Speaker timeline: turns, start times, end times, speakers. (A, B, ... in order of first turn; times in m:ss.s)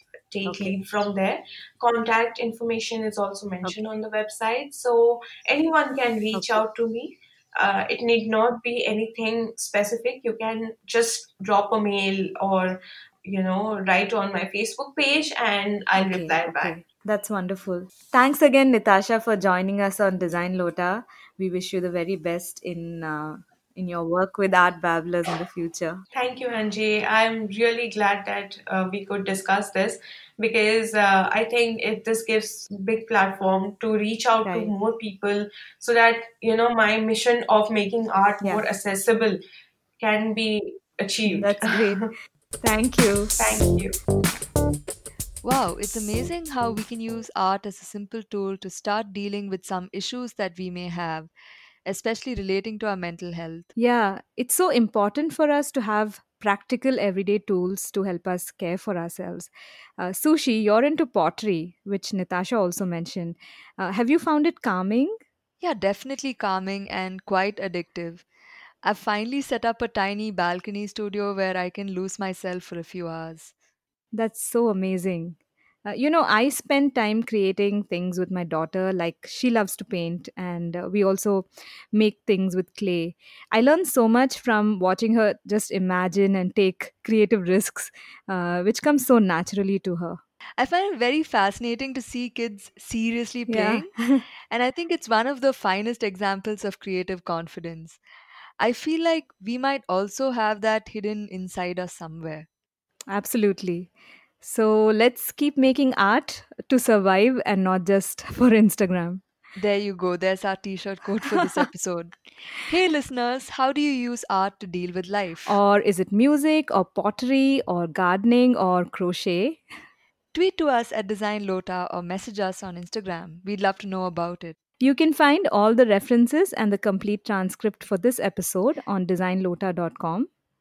0:00.3-0:16.8 A
0:00.5-0:00.8 B
0:06.3-0:06.6 B
0:16.0-0:26.0 B
0:26.1-0:39.4 A
0:34.4-0:34.7 B
0:40.0-0:42.0 A
0:41.3-0:42.1 B
0:42.6-0:43.4 B
0:43.4-0:43.9 A
0:45.4-0:51.3 C
0:51.8-0:53.7 C
0:53.8-1:05.1 B
1:05.6-1:08.2 C
1:08.8-1:13.5 C
1:14.1-1:30.2 B
1:30.6-1:33.9 C
1:33.5-1:34.2 B
1:34.5-1:38.0 C
1:38.6-1:42.5 C
1:43.1-1:49.2 B
1:49.6-1:55.6 C
1:51.2-1:51.6 B
1:55.4-1:59.6 B
2:00.3-2:04.6 C
2:04.8-2:10.3 B